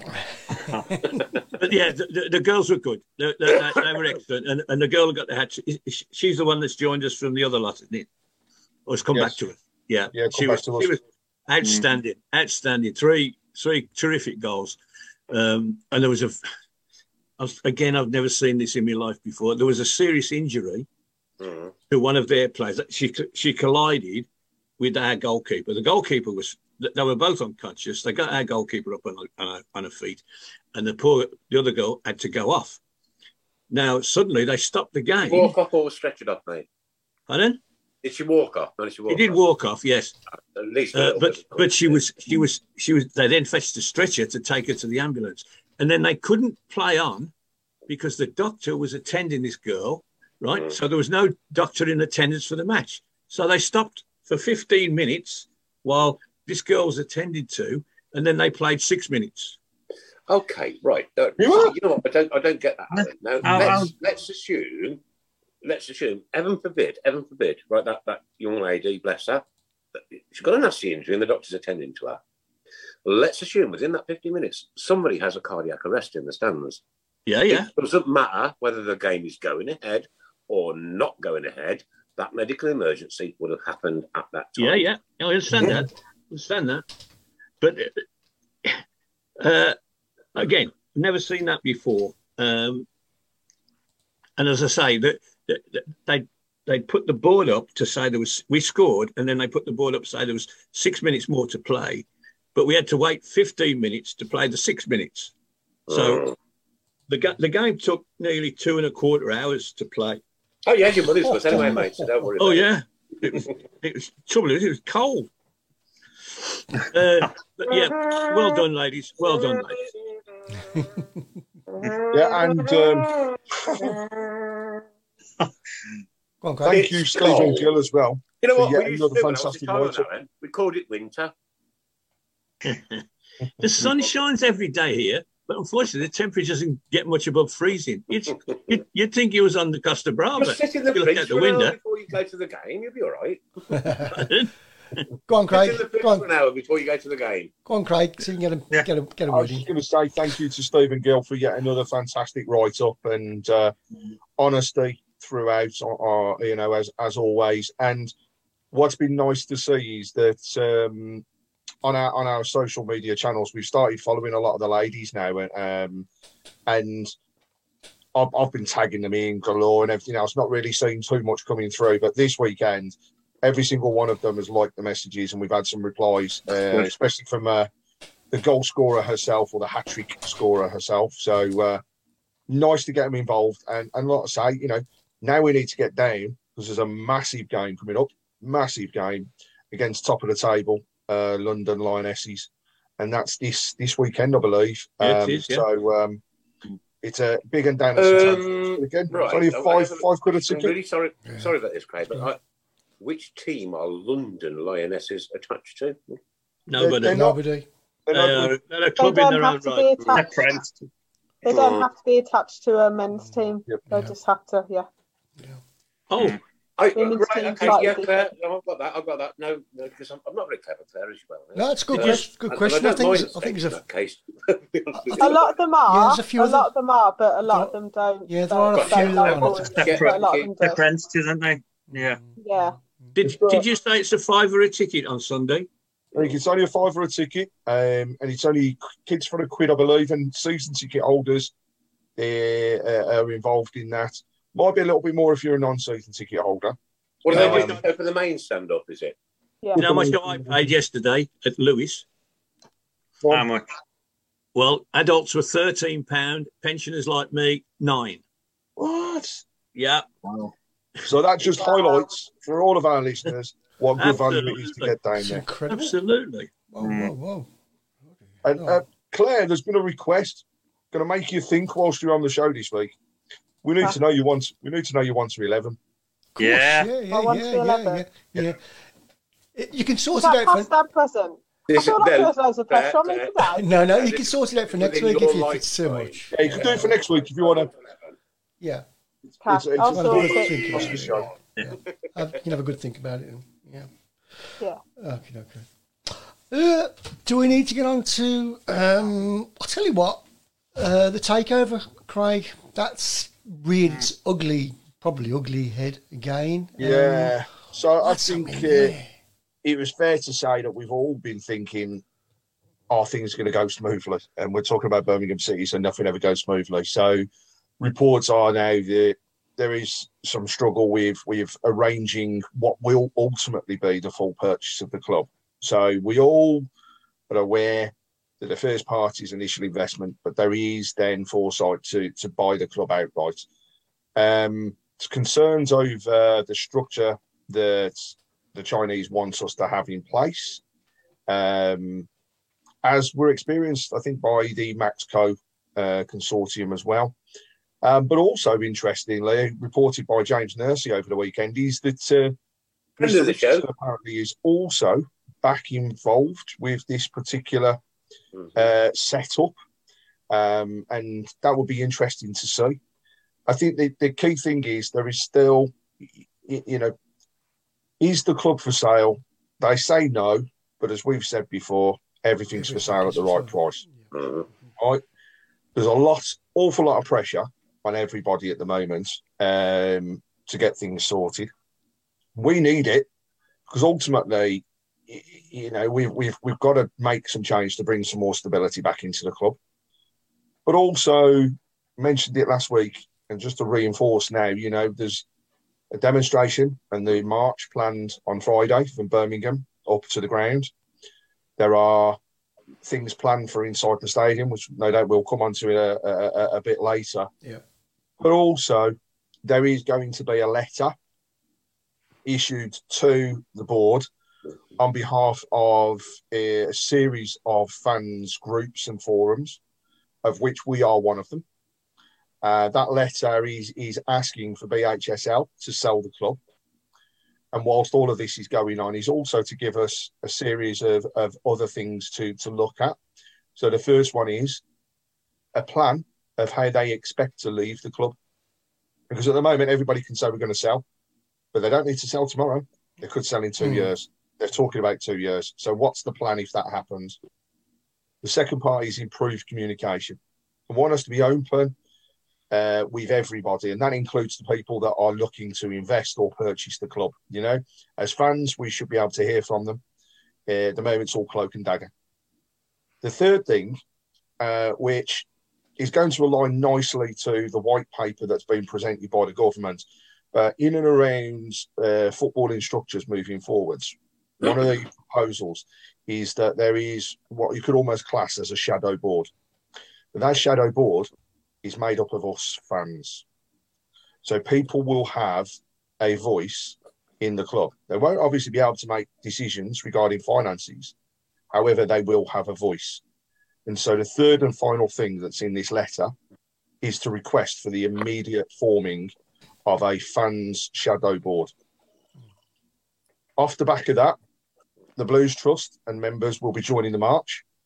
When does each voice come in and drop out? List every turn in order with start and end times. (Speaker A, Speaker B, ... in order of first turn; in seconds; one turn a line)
Speaker A: 0.1-0.9
Speaker B: 1.1-1.6
Speaker C: 1.6-8.1
Speaker B: 3.5-3.9
Speaker C: 8.9-16.4
Speaker D: 9.1-9.4
Speaker D: 10.1-11.0
Speaker C: 17.4-20.9
Speaker B: 21.4-21.7
Speaker C: 21.9-24.3
Speaker C: 24.8-30.2
Speaker C: 30.7-32.8
Speaker C: 33.7-35.5
Speaker B: 35.2-36.6
Speaker C: 37.3-37.6
Speaker B: 38.0-39.4
Speaker C: 39.1-40.1
Speaker B: 40.5-42.0
Speaker C: 40.9-47.3
Speaker C: 47.9-59.6
Speaker B: 60.3-65.0
Speaker D: 61.4-61.8
Speaker E: 62.9-63.9
Speaker B: 65.6-69.4
Speaker B: 70.1-72.2
Speaker B: 73.0-76.8
Speaker C: 77.3-77.7
Speaker B: 77.5-84.9
Speaker C: 84.6-86.8
Speaker C: 87.6-88.0
Speaker C: 89.4-89.8
Speaker C: 90.3-92.8
Speaker C: 94.4-105.3
Speaker C: 105.9-106.2
Speaker B: 105.9-106.3
Speaker C: 107.1-110.2
Speaker B: 110.7-112.7
Speaker A: 111.3-112.2
Speaker C: 112.4-115.3
Speaker C: 116.9-119.7
Speaker B: 117.7-118.6
Speaker B: 119.2-120.0
Speaker B: 121.8-124.8
Speaker D: 122.1-124.0
Speaker A: 126.4-126.9
Speaker D: 126.7-130.1
Speaker B: 126.7-127.7
Speaker B: 128.4-131.3
Speaker C: 132.6-133.0
Speaker C: 133.6-141.8
Speaker B: 140.4-143.4
Speaker A: 143.7-144.3
Speaker C: 144.2-144.5
Speaker A: 145.3-146.3
Speaker B: 145.5-147.5
Speaker A: 147.6-149.7
Speaker D: 149.3-153.7
Speaker D: 154.4-158.1
Speaker D: 158.7-161.2
Speaker D: 161.8-166.1
Speaker D: 166.7-167.1
Speaker D: 168.1-177.7
Speaker D: 178.3-181.8
Speaker D: 182.5-196.2
Speaker C: 195.0-195.6
Speaker D: 197.0-200.7
Speaker B: 197.9-202.4
Speaker A: 201.2-201.5
Speaker B: 203.0-206.2
Speaker C: 206.7-207.3
Speaker D: 206.8-207.4
Speaker A: 207.0-207.7
Speaker D: 208.1-208.5
Speaker C: 208.1-209.9
Speaker F: 209.0-210.4
Speaker E: 210.1-210.8
Speaker F: 211.4-214.9
Speaker B: 211.5-211.9
Speaker A: 213.2-214.1
Speaker C: 216.1-216.4
Speaker B: 216.8-225.5
Speaker F: 216.9-218.2
Speaker A: 221.5-223.8
Speaker A: 224.9-226.7
Speaker F: 225.2-230.8
Speaker A: 227.5-227.7
Speaker A: 228.3-229.9
Speaker B: 228.7-230.5
Speaker E: 229.7-232.2
Speaker A: 231.9-233.2
Speaker F: 232.4-232.8
Speaker C: 233.2-235.7
Speaker D: 233.2-233.7
Speaker D: 236.1-241.5
Speaker D: 242.2-246.8
Speaker B: 247.2-249.2
Speaker C: 247.3-247.8
Speaker D: 247.3-247.8
Speaker C: 249.7-252.1
Speaker D: 249.8-250.6
Speaker D: 253.2-253.4
Speaker E: 253.3-253.7
Speaker C: 254.5-258.2
Speaker D: 258.8-259.4
Speaker C: 259.7-260.1
Speaker D: 261.0-265.5
Speaker F: 261.6-262.0
Speaker C: 264.0-264.9
Speaker A: 265.1-266.0
Speaker C: 265.7-266.5
Speaker A: 266.7-267.5
Speaker E: 266.8-267.1
Speaker A: 268.2-268.8
Speaker D: 268.4-272.9
Speaker D: 273.6-275.8
Speaker A: 276.4-278.6
Speaker E: 276.4-276.9
Speaker F: 277.1-278.0
Speaker A: 279.5-280.7
Speaker F: 280.1-283.7
Speaker B: 281.7-288.1
Speaker A: 283.6-286.9
Speaker D: 286.3-287.7
Speaker F: 289.4-290.9
Speaker D: 289.4-291.3
Speaker A: 289.8-293.9
Speaker B: 290.4-291.0
Speaker A: 294.6-295.6
Speaker A: 296.5-300.2
Speaker A: 300.8-307.4
Speaker D: 306.8-308.9
Speaker A: 308.0-309.1
Speaker D: 309.6-312.0
Speaker D: 312.9-317.2
Speaker D: 317.8-326.7
Speaker D: 327.3-333.4
Speaker D: 334.1-340.6
Speaker D: 341.3-342.1
Speaker D: 342.8-347.1
Speaker D: 347.8-352.4
Speaker D: 353.0-357.8
Speaker B: 353.0-353.7
Speaker D: 358.6-359.5
Speaker D: 360.3-362.8
Speaker D: 363.5-366.9
Speaker D: 368.0-373.8
Speaker A: 372.5-374.1
Speaker B: 374.1-374.4
Speaker D: 374.8-375.0
Speaker D: 375.7-381.5
Speaker D: 382.3-383.1
Speaker D: 383.7-389.6
Speaker D: 390.6-395.2
Speaker D: 395.9-400.7
Speaker D: 401.6-402.2
Speaker D: 402.8-407.3
Speaker D: 408.2-410.9
Speaker D: 412.2-414.1
Speaker D: 414.8-419.6
Speaker D: 420.2-421.4
Speaker D: 422.4-426.4
Speaker D: 427.5-433.0
Speaker D: 433.6-434.6
Speaker D: 435.5-438.1
Speaker D: 439.1-440.8
Speaker D: 441.5-447.2
Speaker A: 443.6-443.9
Speaker D: 448.2-450.2
Speaker D: 450.7-451.7
Speaker D: 452.5-459.8
Speaker D: 460.5-461.9
Speaker D: 463.0-463.8
Speaker D: 464.4-465.3
Speaker D: 465.8-479.3
Speaker D: 480.1-481.1
Speaker D: 481.6-483.2
Speaker D: 484.2-490.9
Speaker D: 491.5-493.0
Speaker D: 493.6-496.1
Speaker D: 496.8-499.1
Speaker D: 499.6-501.5
Speaker D: 503.4-504.2
Speaker D: 504.9-507.4